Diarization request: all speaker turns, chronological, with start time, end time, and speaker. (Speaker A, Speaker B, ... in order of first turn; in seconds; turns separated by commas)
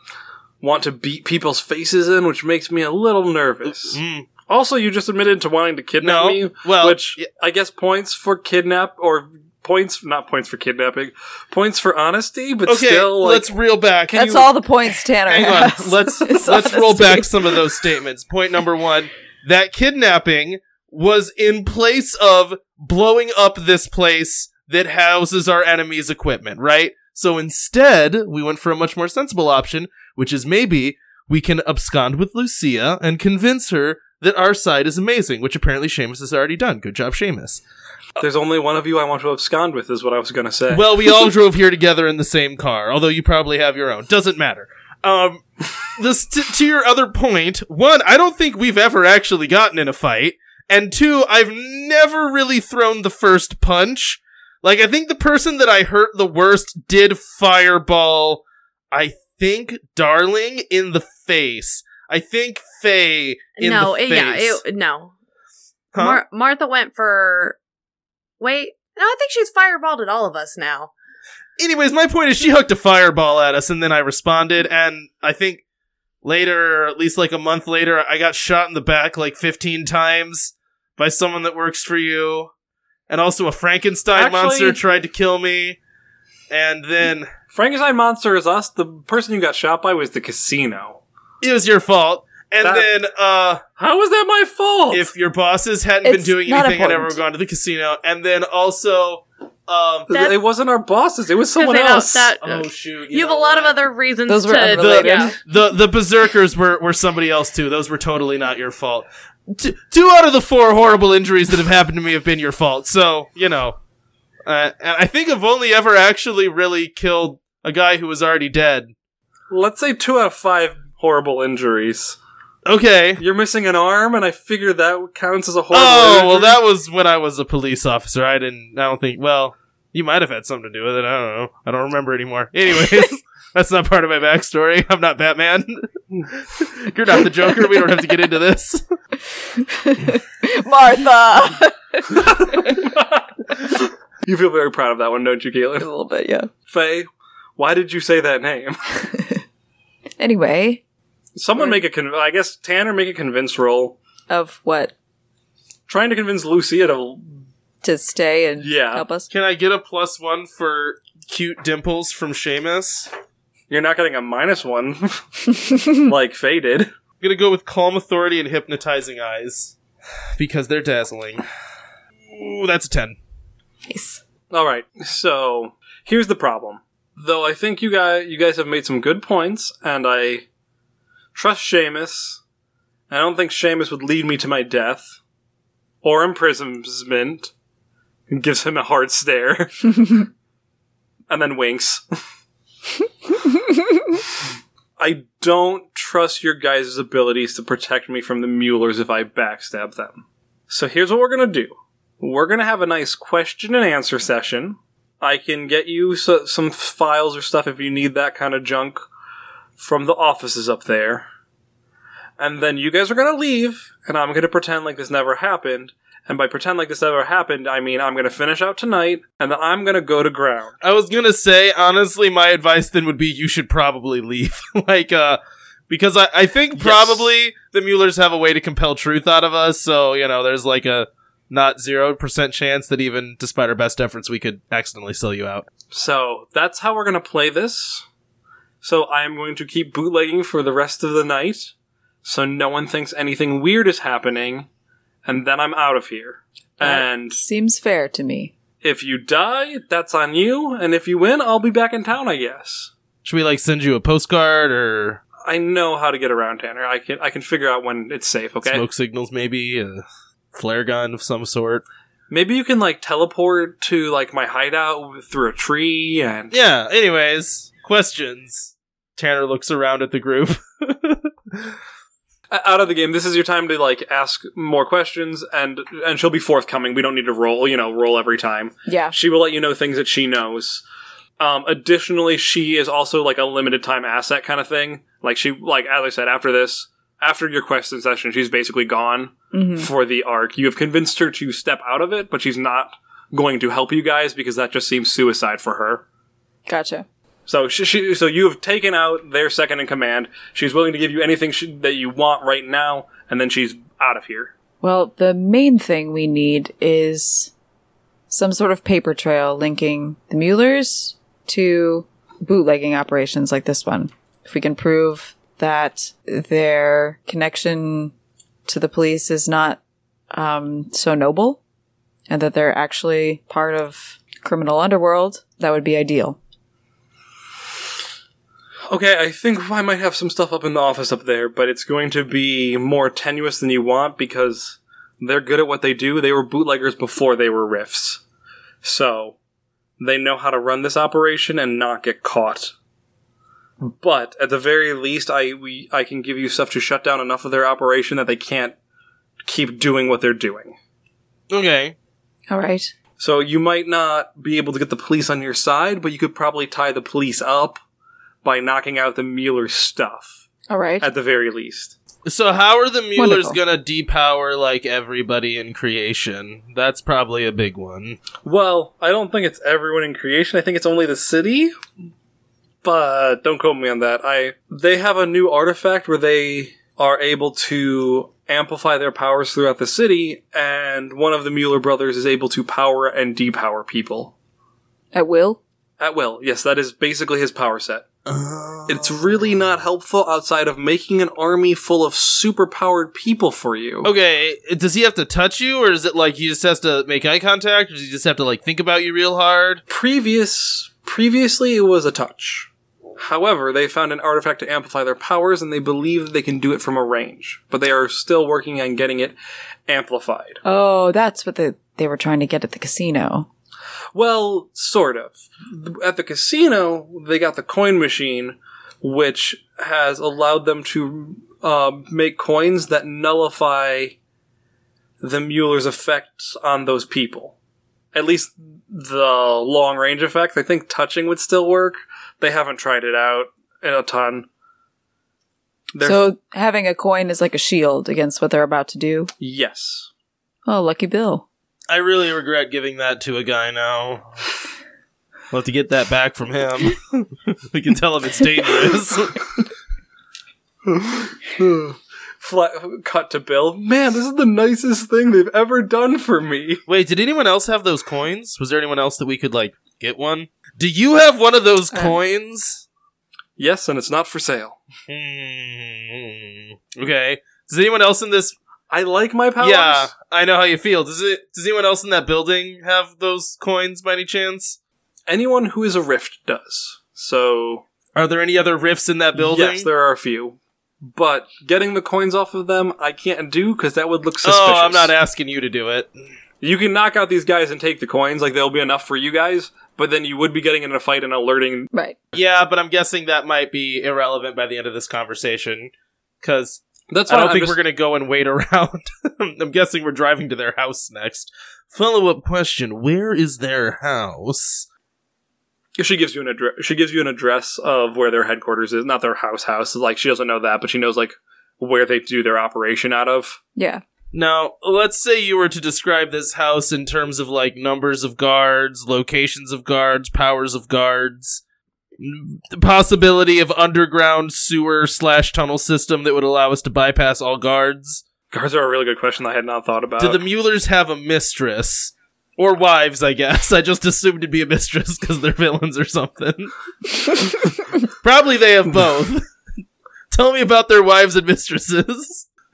Speaker A: 0.6-13.5, Speaker B: 3.7-4.3, Speaker B: 6.0-7.3, Speaker B: 12.7-14.5, Speaker C: 14.1-17.6, Speaker B: 15.3-37.6, Speaker A: 38.2-40.9, Speaker B: 40.7-45.4, Speaker B: 46.0-64.6, Speaker D: 63.6-65.1, Speaker B: 65.9-66.2, Speaker D: 66.0-67.6, Speaker D: 68.4-70.9, Speaker B: 71.6-75.6, Speaker B: 76.2-82.5, Speaker B: 83.1-85.8, Speaker A: 84.2-84.8, Speaker B: 86.5-87.3, Speaker A: 87.5-91.0, Speaker B: 91.4-93.6, Speaker A: 92.6-92.9, Speaker A: 93.8-95.1, Speaker B: 94.9-100.1, Speaker C: 96.0-97.2, Speaker A: 100.1-102.3, Speaker D: 100.1-100.4, Speaker D: 101.6-105.3, Speaker B: 102.4-103.8, Speaker C: 104.3-105.4, Speaker B: 104.7-113.8, Speaker B: 114.5-118.9, Speaker A: 119.5-122.2, Speaker B: 122.7-123.2, Speaker A: 123.2-126.6, Speaker B: 125.7-138.8, Speaker C: 139.6-142.7, Speaker A: 142.5-145.9, Speaker C: 145.8-146.5, Speaker A: 146.7-148.8, Speaker C: 149.1-149.4, Speaker C: 150.2-150.8, Speaker A: 151.4-154.0, Speaker C: 151.6-151.8, Speaker C: 154.3-154.9, Speaker A: 155.9-157.4, Speaker C: 157.8-159.3, Speaker A: 158.6-159.1, Speaker B: 159.3-163.1, Speaker A: 163.7-165.2, Speaker A: 165.9-166.9, Speaker B: 167.2-169.8, Speaker B: 170.4-171.4, Speaker B: 172.3-173.2, Speaker C: 173.9-174.2, Speaker A: 174.5-180.4, Speaker A: 181.3-182.4, Speaker A: 183.1-185.2, Speaker A: 186.0-187.5, Speaker A: 188.3-190.3, Speaker A: 191.3-192.0, Speaker A: 195.0-209.1, Speaker A: 209.8-211.2, Speaker A: 212.4-220.8, Speaker B: 220.8-235.7, Speaker A: 226.8-227.2, Speaker A: 235.9-238.1, Speaker A: 238.8-241.7, Speaker A: 242.2-244.7, Speaker A: 245.3-247.4, Speaker C: 246.8-248.5, Speaker A: 248.8-252.9, Speaker B: 253.2-255.2, Speaker A: 255.4-258.9, Speaker B: 258.6-261.9, Speaker A: 262.3-266.6, Speaker B: 266.5-271.8, Speaker A: 272.5-280.8, Speaker C: 278.9-279.1, Speaker A: 281.4-296.0, Speaker C: 289.5-289.9, Speaker C: 296.7-297.1, Speaker A: 297.5-304.5, Speaker C: 304.8-307.5, Speaker C: 308.3-318.1, Speaker C: 318.7-319.8, Speaker C: 320.3-321.6, Speaker C: 322.3-326.4, Speaker A: 328.9-338.2, Speaker A: 338.8-339.4, Speaker A: 340.0-342.7, Speaker A: 343.8-348.8, Speaker A: 349.4-350.8, Speaker B: 351.5-352.0, Speaker C: 352.5-352.9, Speaker A: 353.2-357.8, Speaker A: 358.4-360.4, Speaker C: 360.7-361.1, Speaker A: 361.0-361.9, Speaker B: 362.3-368.2, Speaker C: 363.2-363.6, Speaker A: 368.4-371.7, Speaker A: 372.8-384.3, Speaker C: 385.1-385.6, Speaker A: 386.0-388.1, Speaker B: 388.3-389.5, Speaker A: 388.9-394.1, Speaker B: 394.0-399.8, Speaker A: 399.9-409.4, Speaker A: 409.9-410.6, Speaker C: 410.6-413.5, Speaker A: 414.1-424.2, Speaker A: 425.2-427.6, Speaker A: 428.1-434.5, Speaker A: 435.9-436.3, Speaker C: 436.0-439.3, Speaker A: 439.4-440.1, Speaker C: 440.7-441.5, Speaker B: 441.9-444.3, Speaker B: 445.5-449.5, Speaker A: 450.9-456.8, Speaker B: 456.9-462.8, Speaker C: 461.9-462.2, Speaker A: 463.6-464.8, Speaker B: 465.1-468.6, Speaker A: 468.9-470.1, Speaker B: 469.6-474.8, Speaker A: 475.3-477.9, Speaker B: 478.1-479.9, Speaker A: 479.4-485.1, Speaker B: 484.4-486.1, Speaker A: 486.6-491.9, Speaker B: 492.3-495.9, Speaker B: 496.4-504.9, Speaker A: 497.1-497.8, Speaker A: 506.0-513.6, Speaker C: 513.8-514.0, Speaker B: 514.3-521.6, Speaker B: 522.2-528.2, Speaker A: 528.5-530.4, Speaker B: 530.2-536.7, Speaker B: 538.2-539.5, Speaker B: 540.3-542.5